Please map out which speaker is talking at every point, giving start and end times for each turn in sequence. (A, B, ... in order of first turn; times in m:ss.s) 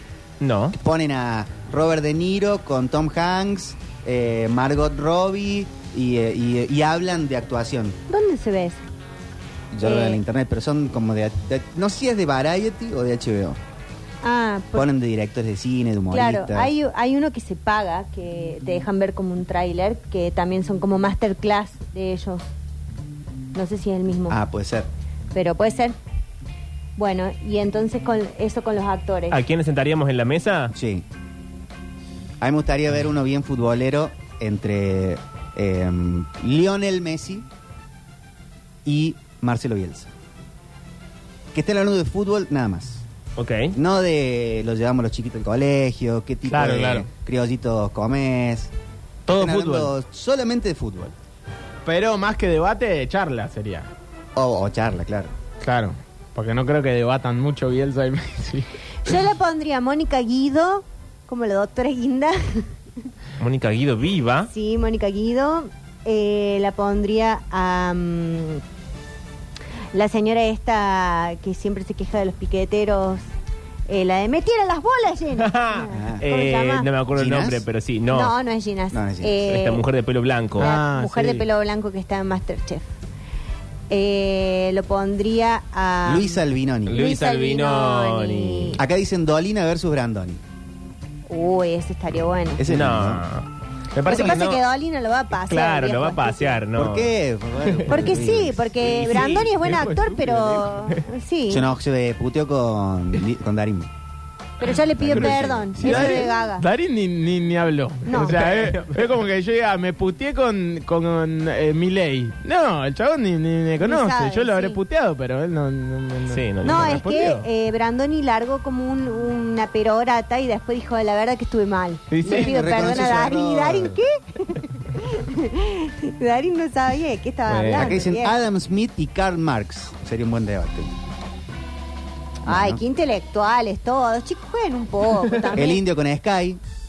0:00.4-0:00.7 A
0:00.7-0:08.0 B
0:08.1-0:08.8 C
0:09.7-0:13.6 B
0:09.8-0:10.2 C
0:14.2-0:14.9 C
0:14.7-0:16.7 B
0:16.1-0:22.4 C
0:23.5-0:24.4 C
0:24.3-0:24.9 B
0:25.3-0:26.0 C
0:27.0-0:29.4 C
0:29.3-0:30.7 A
0:30.7-0:31.0 B
0:32.4-0:37.4 B
0:38.8-0:40.1 B
0:41.5-0:43.0 B
0:43.4-0:43.7 A
0:43.7-0:48.7 B
0:46.5-0:47.1 D
0:49.3-0:49.9 D
0:49.3-0:51.1 B
0:51.8-0:53.9 D
0:54.4-0:55.3 B
0:55.6-0:58.7 D
0:59.0-1:02.7 C
1:03.4-1:04.5 A
1:04.5-1:08.6 C
1:09.9-1:13.2 C
1:13.9-1:16.9 C
1:15.4-1:18.3 A
1:15.9-1:16.2 B
1:17.1-1:17.6 B
1:18.1-1:19.8 C
1:18.9-1:19.4 B
1:19.4-1:20.7 A
1:20.6-1:22.9 C
1:20.6-1:21.5 D
1:23.9-1:28.8 C
1:26.0-1:27.0 B
1:26.9-1:28.8 A
1:28.8-1:30.4 B
1:31.3-1:32.6 C
1:32.6-1:33.2 B
1:32.6-1:33.5 A
1:34.0-1:34.6 A
1:34.0-1:36.6 C
1:35.4-1:37.1 A
1:36.7-1:38.7 B
1:37.6-1:38.2 A
1:37.9-1:41.7 C
1:38.8-1:41.1 A
1:41.5-1:43.9 B
1:44.6-1:46.6 C
1:45.0-1:46.3 B
1:45.0-1:46.0 A
1:45.8-1:57.5 D
1:48.1-1:48.5 C
1:48.2-1:49.1 A
1:53.8-1:54.8 C
1:56.3-1:57.1 A
1:56.6-2:08.4 C
2:02.1-2:02.5 D
2:02.2-2:04.0 B
2:07.5-2:07.8 D
2:07.5-2:08.0 A
2:07.7-2:10.9 B
2:12.4-2:15.8 C
2:12.4-2:12.8 B
2:15.5-2:16.6 B